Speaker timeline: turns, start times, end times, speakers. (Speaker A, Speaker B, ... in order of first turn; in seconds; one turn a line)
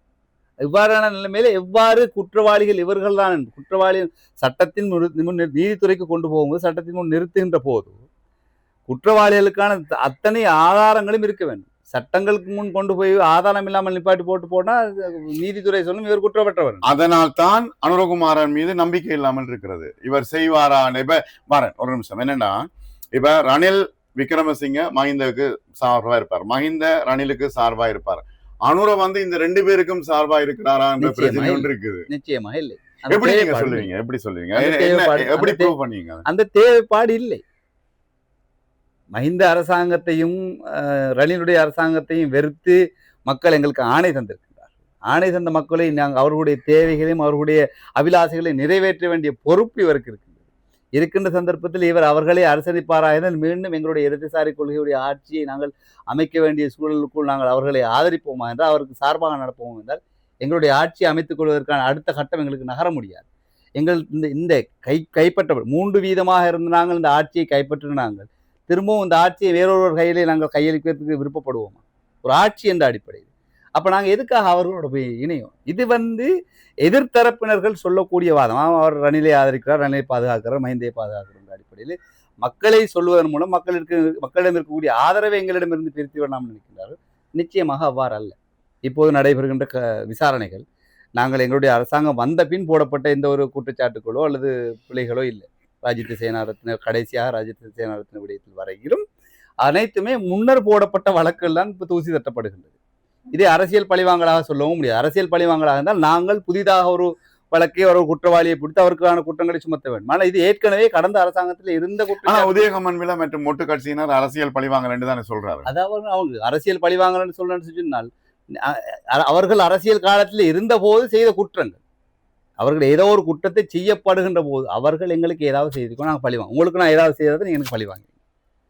Speaker A: 0.6-8.0
Speaker A: 8.9-16.9
Speaker B: 16.9-32.1
Speaker A: 31.0-33.9
Speaker B: 33.1-36.2
Speaker A: 34.5-35.7
Speaker A: 36.2-37.4
Speaker A: 39.1-50.3
Speaker A: 51.0-63.2
Speaker A: 63.8-76.3
Speaker A: 76.8-88.3
Speaker A: 88.9-90.6
Speaker A: 91.2-99.0
Speaker A: 99.6-102.7
Speaker A: 103.3-112.6
Speaker B: 112.2-115.7
Speaker A: 115.7-121.8
Speaker A: 122.6-128.1